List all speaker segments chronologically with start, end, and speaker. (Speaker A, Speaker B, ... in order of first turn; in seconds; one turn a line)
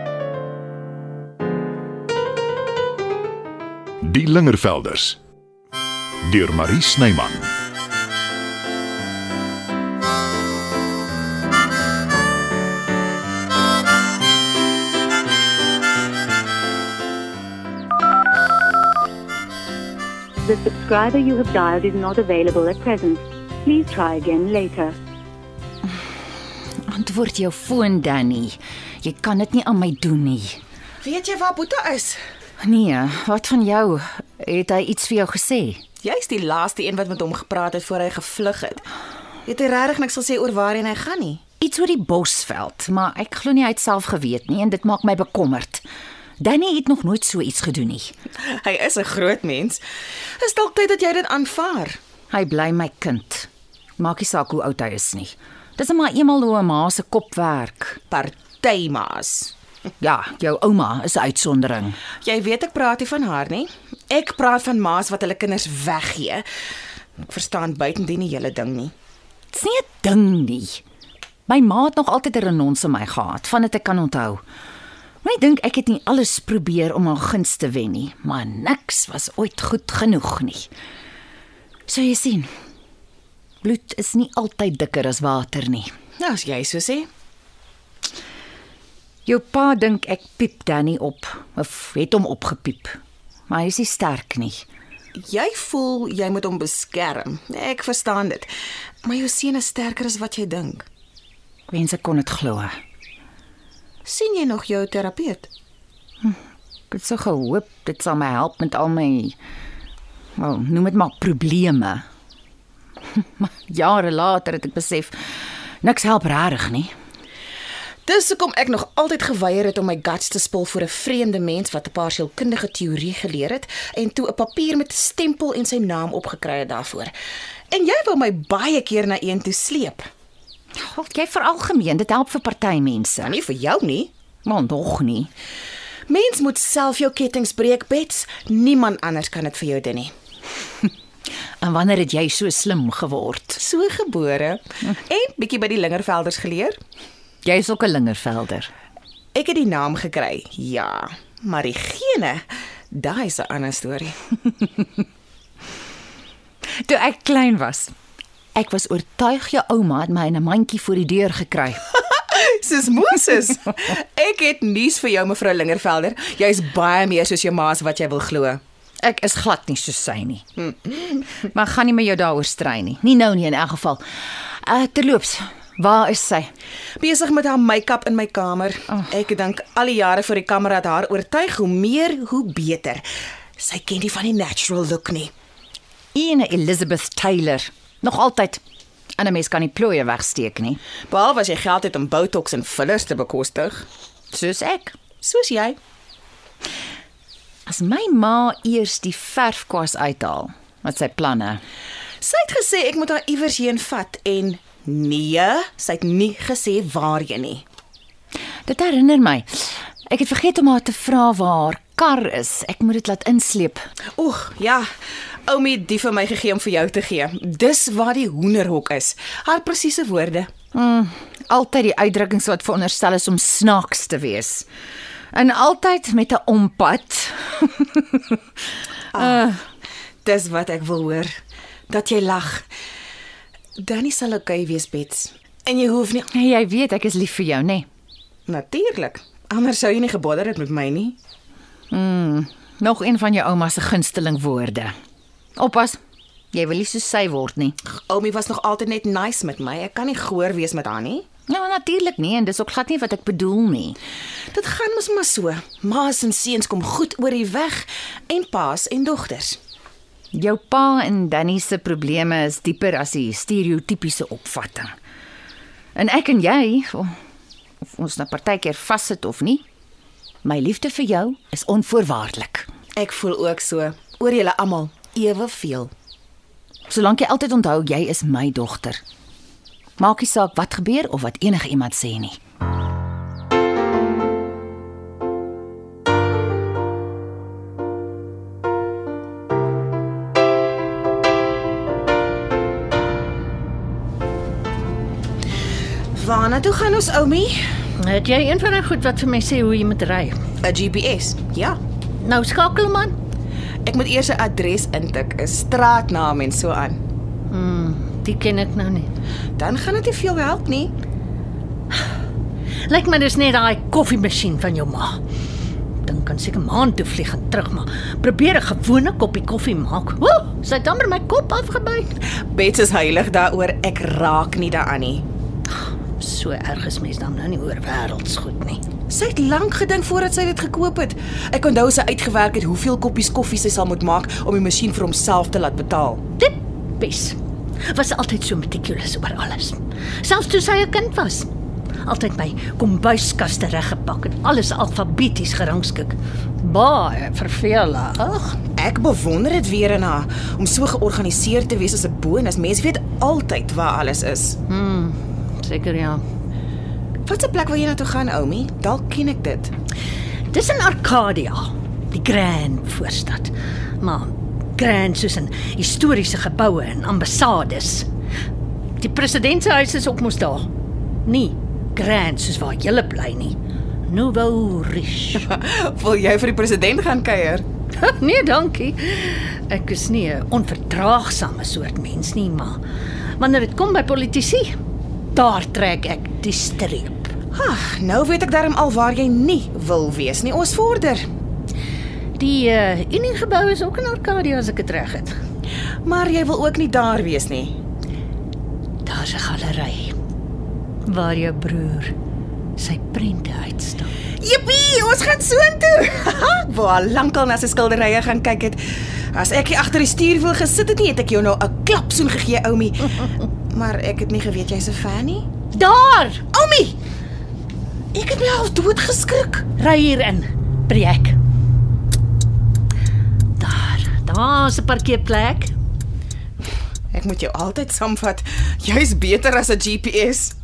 Speaker A: 4.1-5.2
Speaker A: 6.3-7.5
Speaker B: 20.4-24.9
Speaker C: 26.9-30.6
Speaker D: 31.0-32.2
Speaker C: 32.6-35.8
Speaker D: 36.0-38.8
Speaker D: 39.5-41.4
Speaker C: 41.6-45.8
Speaker C: 46.4-48.1
Speaker D: 48.4-49.8
Speaker D: 50.4-52.0
Speaker C: 52.3-58.0
Speaker D: 58.1-59.5
Speaker C: 60.0-62.0
Speaker D: 62.2-66.5
Speaker D: 67.2-68.9
Speaker C: 69.5-70.8
Speaker C: 71.5-74.4
Speaker C: 75.2-80.7
Speaker C: 81.9-82.5
Speaker C: 83.6-85.9
Speaker D: 86.2-87.1
Speaker C: 89.2-93.0
Speaker C: 93.5-94.6
Speaker D: 95.1-98.5
Speaker D: 99.0-100.9
Speaker C: 101.7-102.8
Speaker D: 104.0-105.5
Speaker C: 106.9-109.4
Speaker C: 110.4-112.0
Speaker C: 113.1-116.9
Speaker D: 118.1-127.1
Speaker D: 127.7-130.1
Speaker C: 130.8-133.4
Speaker D: 133.3-134.1
Speaker C: 134.4-135.3
Speaker D: 136.1-140.1
Speaker C: 141.6-143.6
Speaker D: 143.6-146.8
Speaker C: 147.4-148.7
Speaker D: 149.3-154.2
Speaker C: 156.8-157.9
Speaker C: 158.6-161.8
Speaker D: 162.1-168.6
Speaker C: 169.0-170.5
Speaker C: 171.4-176.5
Speaker D: 177.0-183.0
Speaker D: 183.6-185.3
Speaker C: 186.1-188.6
Speaker C: 189.2-190.8
Speaker D: 191.1-193.8
Speaker C: 194.3-195.0
Speaker D: 195.2-195.8
Speaker C: 197.7-201.6
Speaker D: 202.2-207.7
Speaker C: 208.7-213.8
Speaker D: 214.2-214.9
Speaker D: 215.5-220.5
Speaker C: 220.7-224.7
Speaker C: 225.3-228.4
Speaker D: 229.1-229.5
Speaker C: 229.2-229.6
Speaker D: 230.2-231.3
Speaker D: 231.9-232.7
Speaker D: 233.8-236.3
Speaker C: 236.3-237.8
Speaker D: 238.5-241.2
Speaker C: 241.9-244.9
Speaker C: 245.6-246.0
Speaker C: 246.5-247.8
Speaker D: 248.0-251.2
Speaker C: 251.5-254.0
Speaker D: 254.5-259.6
Speaker C: 260.3-264.9
Speaker C: 265.9-267.1
Speaker C: 267.9-269.6
Speaker C: 270.4-272.7
Speaker D: 273.0-275.9
Speaker C: 276.9-279.0
Speaker C: 280.0-282.4
Speaker D: 296.1-297.6
Speaker E: 298.0-300.4
Speaker D: 300.6-301.8
Speaker E: 302.2-303.1
Speaker D: 303.9-307.0
Speaker E: 307.5-309.1
Speaker D: 309.6-310.9
Speaker E: 312.9-315.2
Speaker E: 316.0-322.1
Speaker D: 322.4-325.2
Speaker E: 325.7-328.8
Speaker D: 329.1-336.2
Speaker E: 336.4-337.4
Speaker E: 337.9-341.5
Speaker E: 342.1-348.6
Speaker D: 348.7-354.6
Speaker E: 354.7-356.2
Speaker D: 357.2-359.7
Speaker E: 360.5-368.1
Speaker E: 369.0-370.7
Speaker E: 371.2-373.6
Speaker E: 374.1-375.5
Speaker D: 375.4-377.6
Speaker E: 378.0-382.8
Speaker E: 383.4-384.8
Speaker E: 385.3-387.3
Speaker D: 387.5-391.2
Speaker E: 392.4-395.4
Speaker D: 396.1-397.8
Speaker E: 399.1-400.1
Speaker E: 401.1-402.1
Speaker E: 402.8-404.1
Speaker D: 404.4-415.5
Speaker E: 415.7-416.4
Speaker D: 416.5-416.9
Speaker D: 418.1-419.7
Speaker E: 419.8-421.4
Speaker E: 423.6-425.7
Speaker D: 427.1-430.6